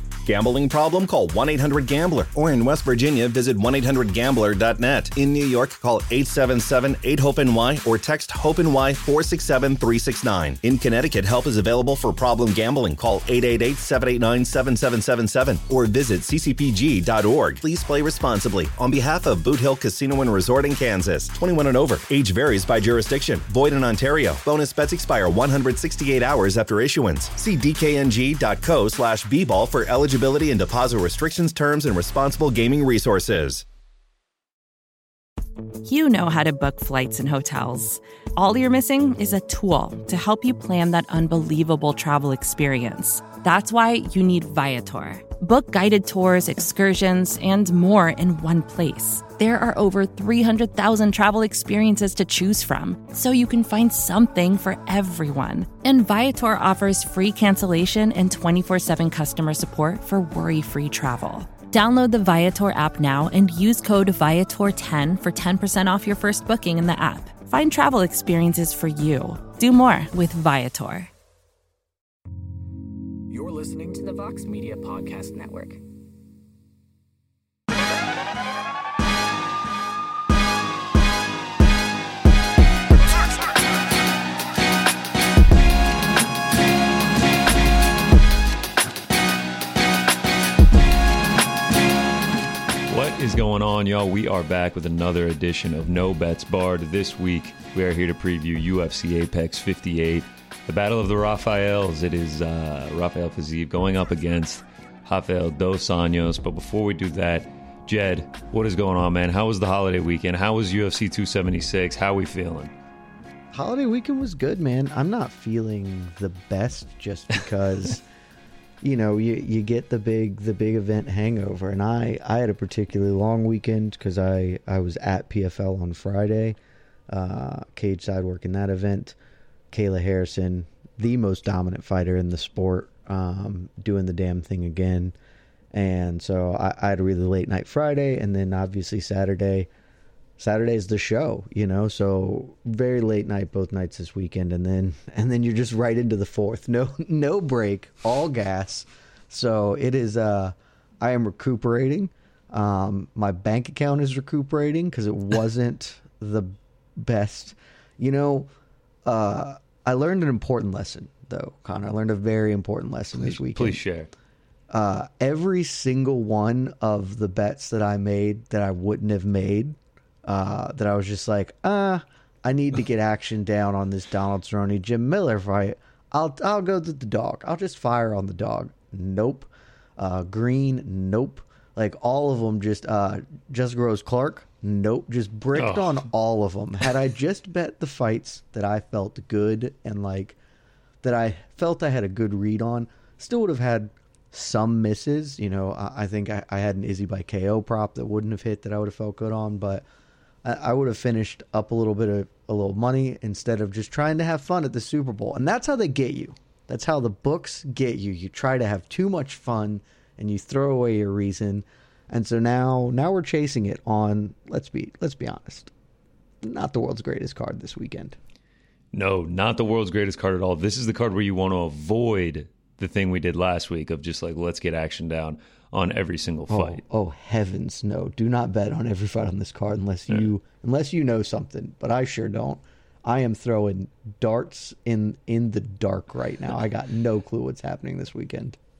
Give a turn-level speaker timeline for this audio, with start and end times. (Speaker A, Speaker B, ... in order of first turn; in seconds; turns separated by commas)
Speaker A: 0.2-33.6, Speaker B: 35.8-71.1, Speaker C: 73.3-75.8, Speaker D: 92.9-112.7, Speaker E: 113.5-118.0, Speaker E: 118.8-126.6, Speaker E: 127.1-129.2, Speaker E: 129.7-135.2, Speaker E: 135.7-139.7, Speaker E: 140.4-158.5, Speaker E: 159.0-163.8, Speaker D: 163.1-164.1, Speaker E: 164.7-190.4, Speaker D: 185.5-186.1, Speaker E: 191.0-199.8, Speaker E: 200.4-215.7, Speaker E: 216.4-218.2, Speaker D: 218.9-226.8, Speaker E: 226.5-238.6